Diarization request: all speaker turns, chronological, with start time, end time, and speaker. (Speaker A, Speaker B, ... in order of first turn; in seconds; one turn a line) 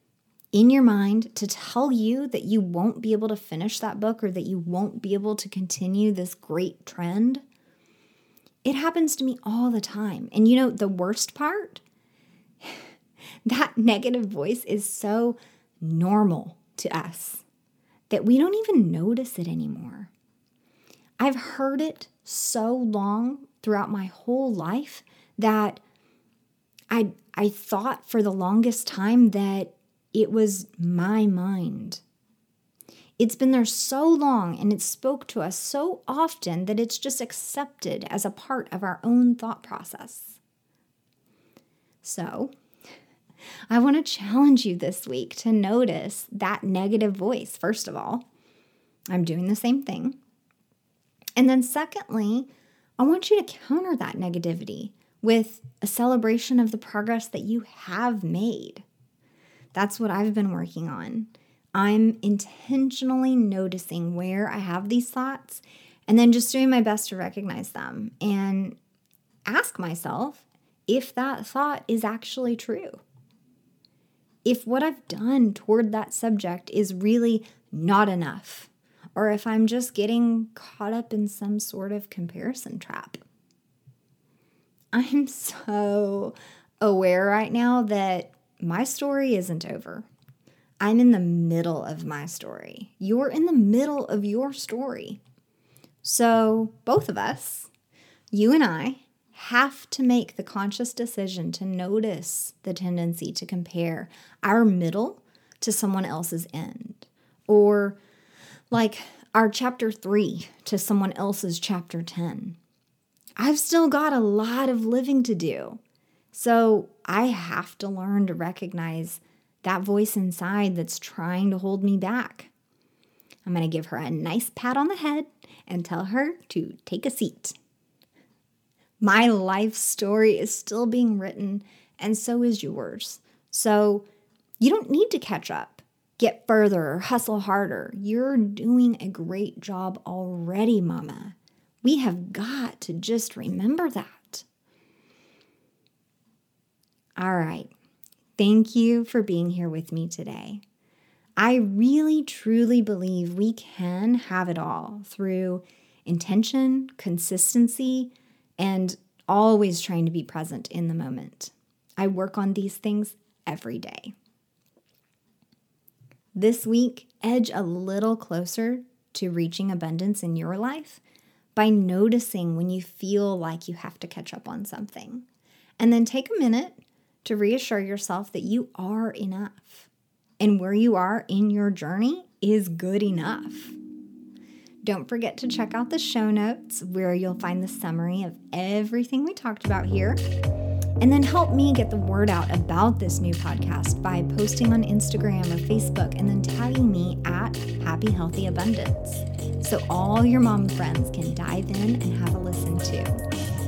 Speaker A: 0.5-7.4
Speaker A: 8.7-11.8
Speaker A: 12.6-12.9
Speaker A: 13.4-17.4
Speaker A: 18.1-20.1
Speaker A: 21.2-25.8
Speaker A: 26.9-32.0
Speaker A: 33.2-40.4
Speaker A: 42.0-42.5
Speaker A: 43.7-48.2
Speaker A: 49.1-50.2
Speaker A: 51.4-52.5
Speaker A: 53.0-58.8
Speaker A: 59.7-68.8
Speaker A: 69.5-73.0
Speaker A: 74.5-83.2
Speaker A: 84.9-90.1
Speaker A: 90.8-95.2
Speaker A: 96.0-97.7
Speaker A: 98.3-108.0
Speaker A: 108.7-112.6
Speaker A: 113.4-115.8
Speaker A: 116.3-122.5
Speaker A: 123.5-127.6
Speaker A: 129.0-134.1
Speaker A: 134.6-144.5
Speaker A: 147.2-147.7
Speaker A: 148.4-150.6
Speaker A: 151.4-164.1
Speaker A: 166.4-171.0
Speaker A: 171.6-175.2
Speaker A: 175.8-179.9
Speaker A: 180.4-183.8
Speaker A: 184.8-190.2
Speaker A: 191.0-203.2